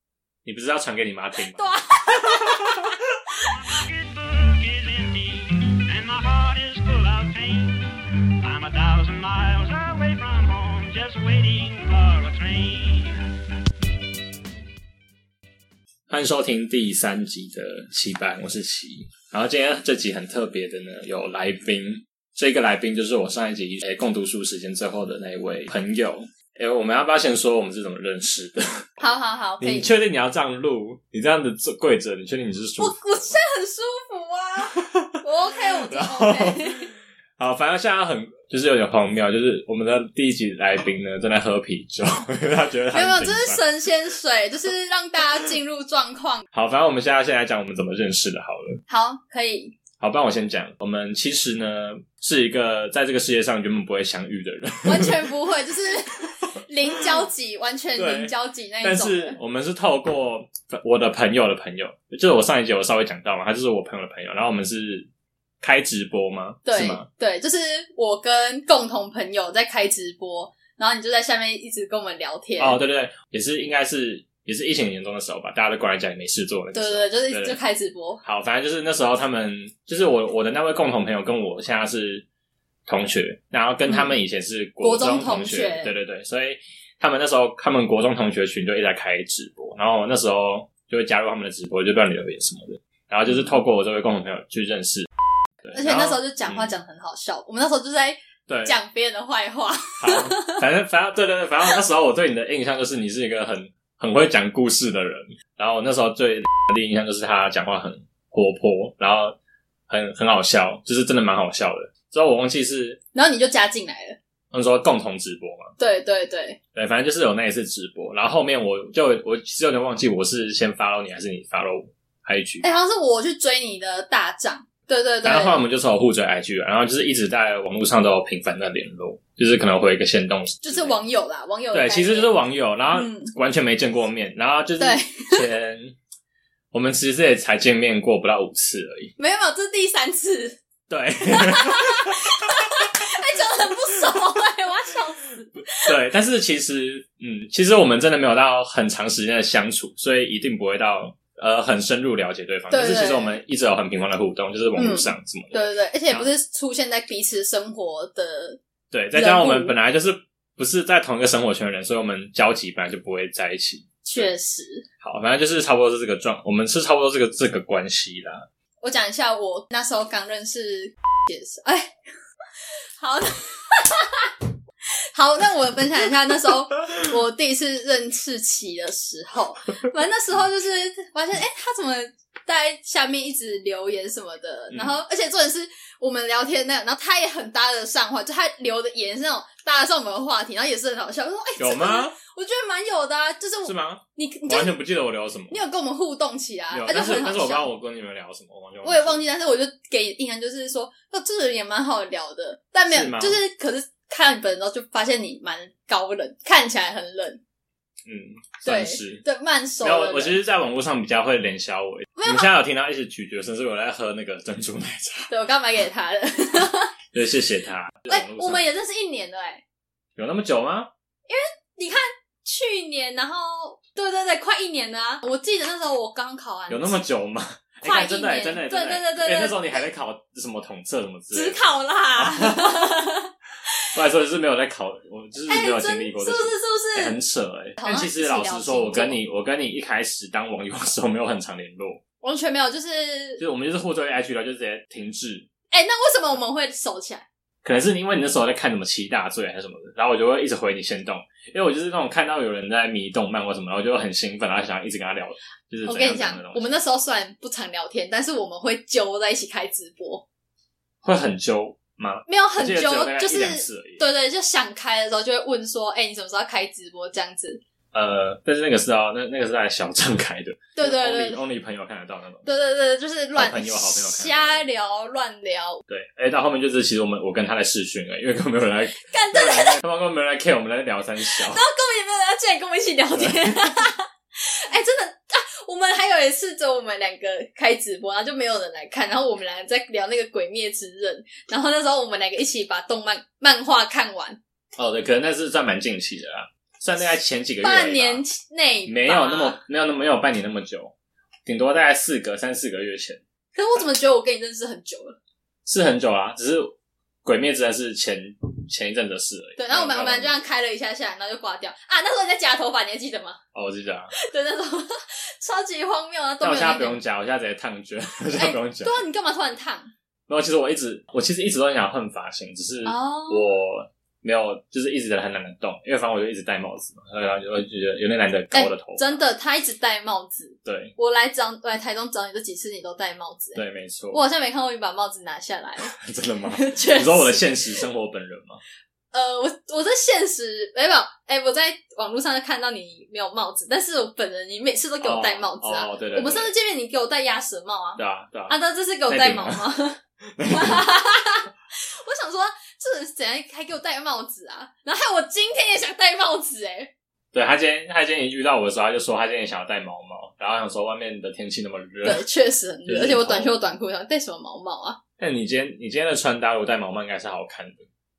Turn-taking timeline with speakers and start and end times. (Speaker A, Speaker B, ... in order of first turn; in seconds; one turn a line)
Speaker A: 0.5-2.9
Speaker B: 1.6-2.8
Speaker C: 3.5-13.2
Speaker A: 16.1-28.9
Speaker B: 29.0-29.9
Speaker A: 29.6-33.0
Speaker B: 32.8-36.9
Speaker A: 35.7-43.6
Speaker B: 42.9-46.5
Speaker A: 46.5-48.8
Speaker B: 48.9-49.8
Speaker A: 50.0-55.3
Speaker B: 54.9-59.4
Speaker A: 58.0-65.1
Speaker A: 65.6-67.1
Speaker B: 66.7-72.8
Speaker A: 72.6-77.6
Speaker B: 76.7-78.2
Speaker A: 78.2-82.3
Speaker A: 82.9-95.1
Speaker B: 83.9-84.2
Speaker B: 84.8-85.9
Speaker A: 95.6-96.7
Speaker B: 95.7-100.6
Speaker A: 98.5-98.8
Speaker A: 100.0-109.4
Speaker A: 109.9-113.0
Speaker B: 113.1-114.2
Speaker A: 114.5-115.7
Speaker B: 115.8-116.6
Speaker A: 116.8-122.7
Speaker B: 122.6-125.6
Speaker A: 125.2-131.0
Speaker B: 130.6-132.4
Speaker A: 131.7-136.0
Speaker B: 132.9-133.3
Speaker B: 134.8-135.5
Speaker A: 136.7-139.1
Speaker B: 139.2-140.6
Speaker A: 140.9-142.9
Speaker B: 141.2-145.9
Speaker A: 145.8-156.3
Speaker B: 152.7-153.4
Speaker B: 154.8-158.6
Speaker A: 158.9-164.3
Speaker B: 159.1-159.7
Speaker B: 164.1-164.9
Speaker A: 165.0-168.5
Speaker B: 168.8-171.9
Speaker B: 173.0-174.3
Speaker B: 175.1-194.8
Speaker A: 184.7-185.0
Speaker A: 191.6-192.2
Speaker A: 193.7-195.6
Speaker B: 195.5-197.7
Speaker A: 196.7-199.2
Speaker B: 198.8-207.4
Speaker A: 202.9-203.4
Speaker A: 208.1-209.2
Speaker B: 208.6-210.3
Speaker A: 209.8-215.3
Speaker B: 212.2-212.5
Speaker B: 215.3-216.9
Speaker A: 217.1-218.6
Speaker B: 218.1-219.6
Speaker A: 220.2-220.9
Speaker B: 221.3-227.0
Speaker A: 226.7-233.0
Speaker B: 227.8-229.8
Speaker B: 231.3-233.9
Speaker A: 233.9-242.0
Speaker B: 235.5-237.2
Speaker B: 237.8-239.2
Speaker B: 242.2-243.4
Speaker A: 243.4-245.5
Speaker B: 245.7-247.3
Speaker A: 247.6-256.7
Speaker B: 255.8-260.2
Speaker A: 261.0-264.0
Speaker B: 262.3-267.6
Speaker A: 267.9-272.5
Speaker B: 270.8-271.4
Speaker B: 272.4-275.8
Speaker A: 273.4-274.6
Speaker A: 275.9-281.6
Speaker B: 279.1-279.8
Speaker B: 281.3-294.4
Speaker A: 283.1-283.8
Speaker A: 294.8-298.2
Speaker B: 297.6-299.6
Speaker A: 298.9-300.9
Speaker A: 301.4-303.2
Speaker B: 303.6-305.2
Speaker A: 305.7-306.7
Speaker A: 307.2-310.3
Speaker B: 309.6-313.4
Speaker A: 313.5-314.1
Speaker B: 314.1-317.0
Speaker A: 316.4-319.1
Speaker B: 318.3-319.9
Speaker A: 320.3-329.2
Speaker B: 322.9-323.4
Speaker B: 328.5-333.6
Speaker A: 330.6-330.9
Speaker A: 333.6-334.2
Speaker B: 334.1-335.9
Speaker A: 335.9-338.6
Speaker B: 336.5-337.8
Speaker B: 339.1-356.9
Speaker A: 345.0-346.5
Speaker A: 348.0-348.6
Speaker A: 349.1-349.6
Speaker A: 350.4-350.9
Speaker A: 357.3-362.2
Speaker B: 362.1-365.0
Speaker A: 362.9-363.6
Speaker A: 365.2-367.9